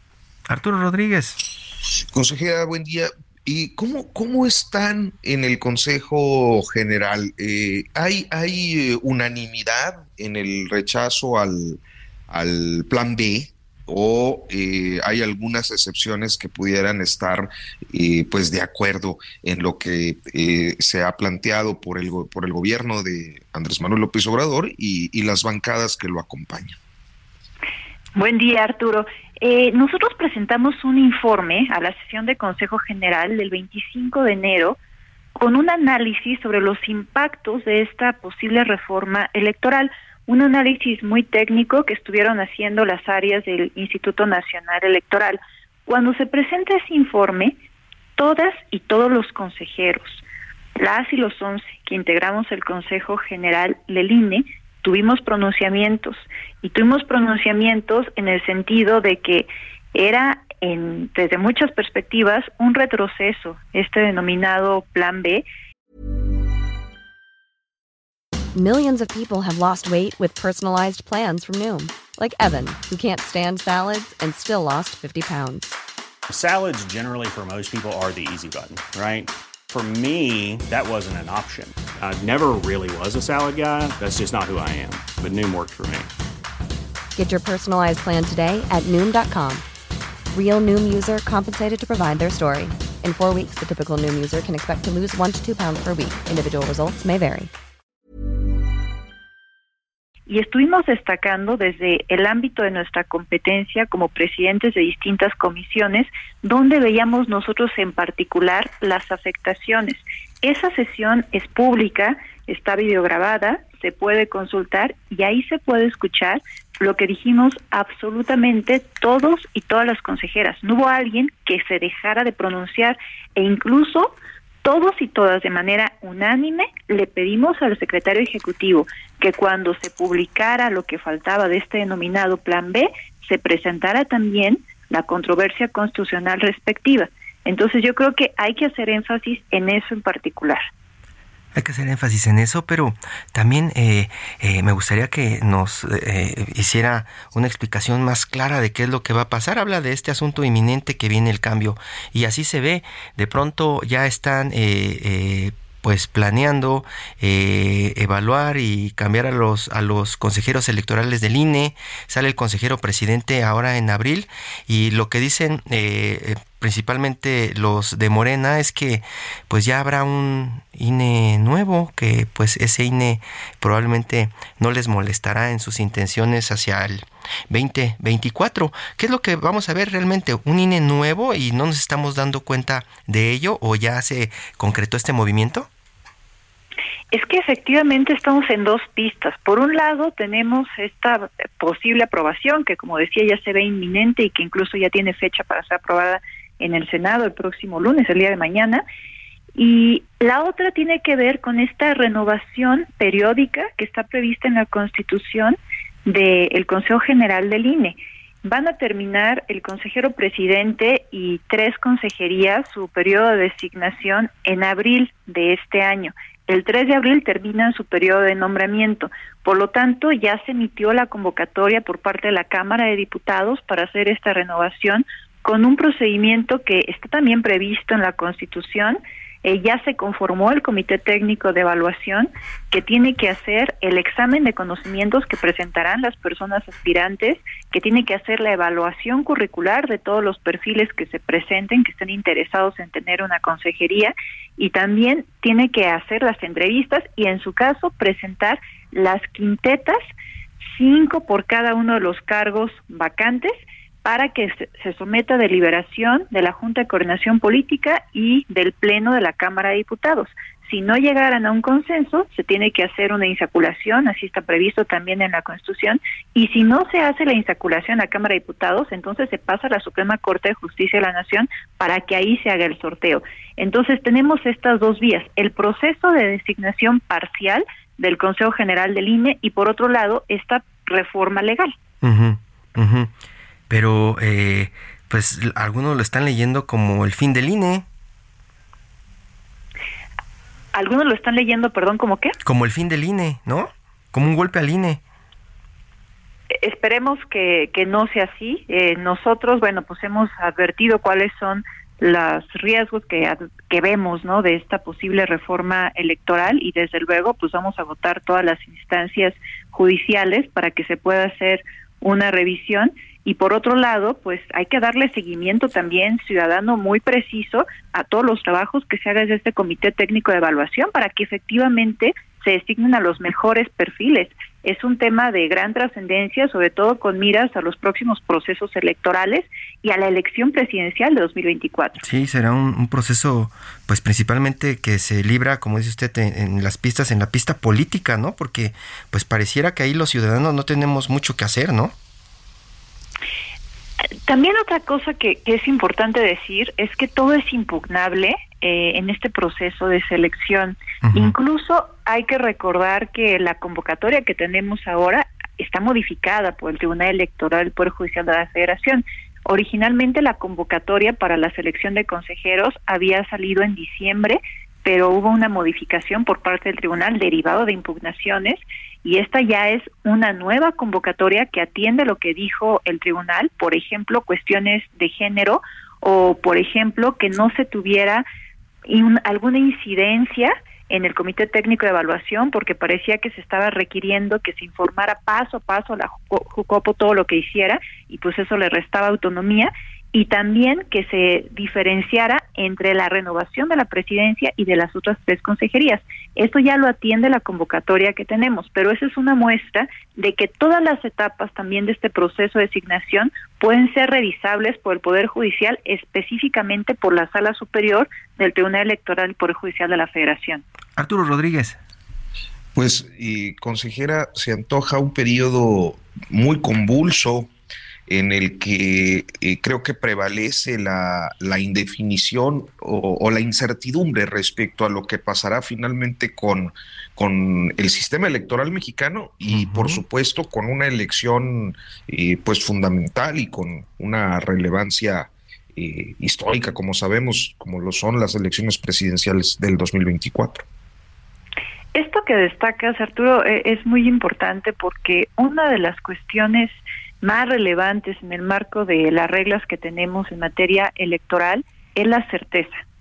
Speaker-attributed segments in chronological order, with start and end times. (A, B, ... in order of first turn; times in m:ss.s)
0:00.5-0:01.4 A
0:02.1-0:26.8 B
0:28.2-0:34.8 C
0:35.4-0:47.6 C
0:48.2-0:50.2 C
0:50.8-1:05.4 C
1:08.5-1:15.7 D
1:16.3-1:26.1 E
1:27.2-1:29.6 D
1:30.3-1:37.5 D
1:40.3-2:20.6 C
2:21.5-3:05.7 A
3:07.1-3:18.8 C
3:19.6-4:10.1 C
4:10.7-4:41.7 C
4:42.0-4:43.1 A
4:43.7-4:47.8 A
4:50.7-4:52.3 C
4:52.4-4:55.0 A
4:56.6-5:32.0 C
5:32.0-5:41.9 A
5:44.3-6:18.2 C
5:51.0-5:51.3 A
6:18.9-6:50.6 C
6:51.0-6:51.8 A
6:52.7-6:57.5 B
6:58.1-7:20.6 B
7:09.5-7:10.0 A
7:21.9-7:32.8 C